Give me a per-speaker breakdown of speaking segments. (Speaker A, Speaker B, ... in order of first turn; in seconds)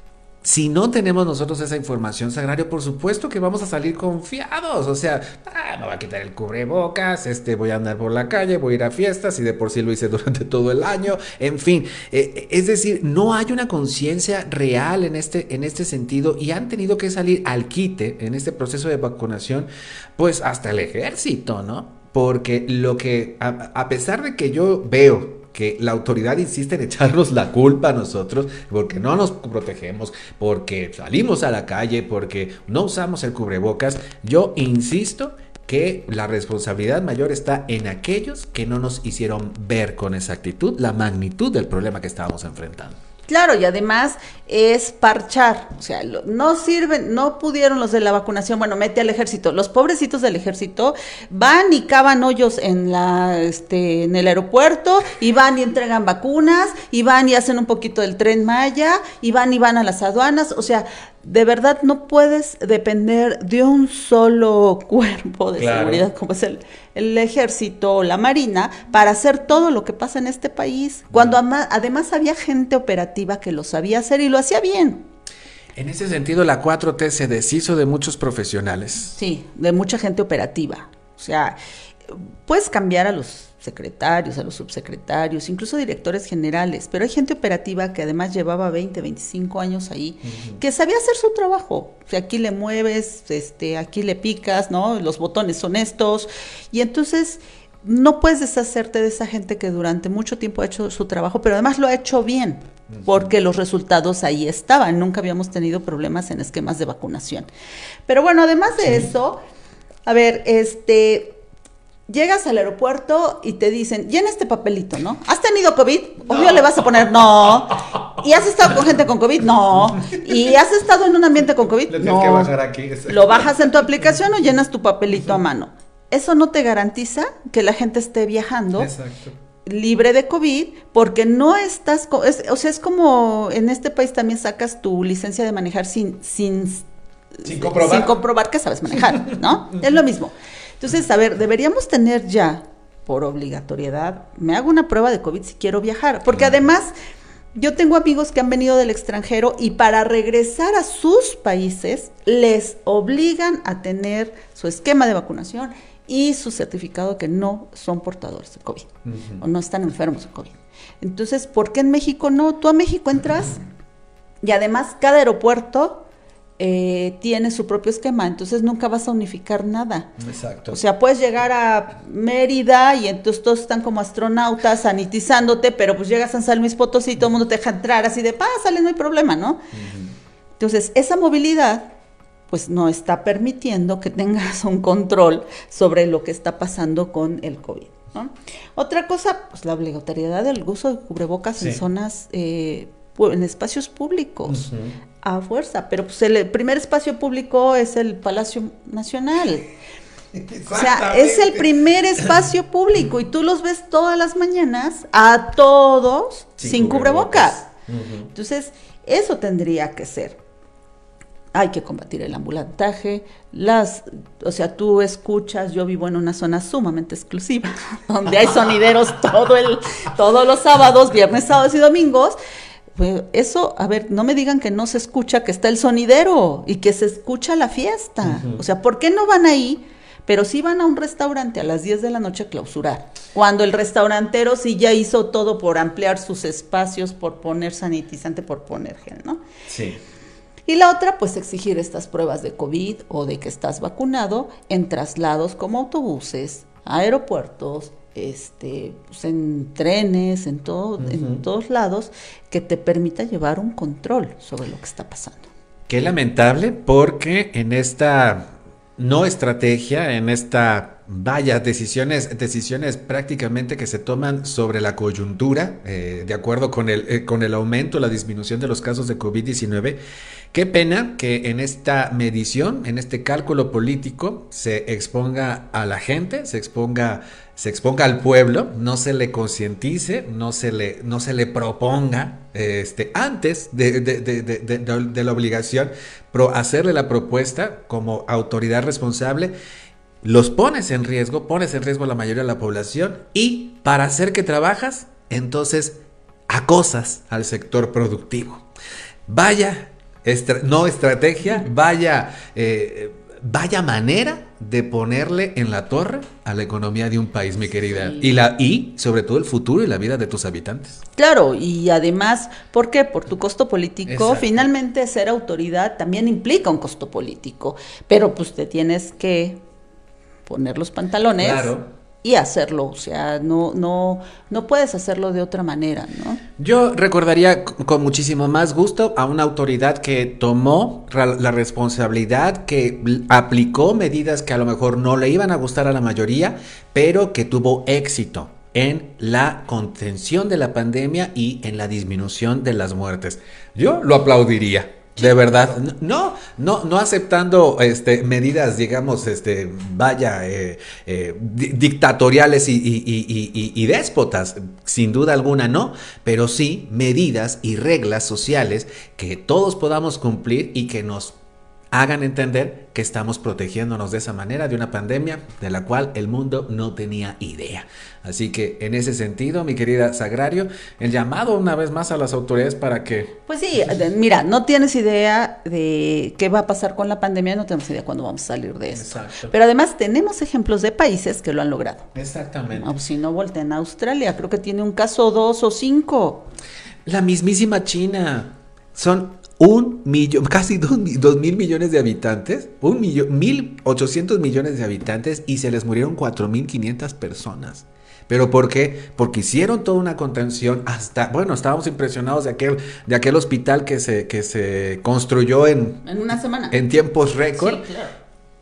Speaker A: 0.4-43.0, 65.6-66.1, 71.1-71.4, 75.8-79.2, 90.2-90.6, 102.9-103.3, 116.3-116.7, 121.9-124.0, 128.8-129.4, 137.4-138.2, 146.3-146.6, 159.1-159.4, 170.2-170.8, 179.7-180.1, 191.6-191.8, 194.5-194.9, 200.3-201.7, 206.6-208.3, 228.2-228.6, 239.7-240.0, 251.0-251.4, 255.9-270.0, 270.5-289.5, 290.2-296.0, 296.5-298.6, 299.3-311.0, 314.1-314.7, 321.4-321.9, 326.6-361.4, 361.9-373.4, 378.9-379.5, 382.1-382.9, 387.1-406.0, 406.7-407.8
Speaker B: 43.3-75.0, 79.1-81.6, 82.1-107.5, 108.1-109.4, 110.1-111.4, 112.1-122.5, 123.1-128.9, 129.7-136.9, 137.4-146.9, 147.6-163.6, 164.4-166.1, 166.6-170.1, 170.7-179.6, 180.6-181.9, 182.5-194.7, 195.2-199.7, 200.7-207.7, 208.3-210.4, 211.5-222.4, 223.0-239.4, 240.7-255.5, 307.9-308.3, 311.2-319.6, 320.5-326.4, 373.5-382.1, 382.7-386.5, 406.0-406.8, 407.5-408.2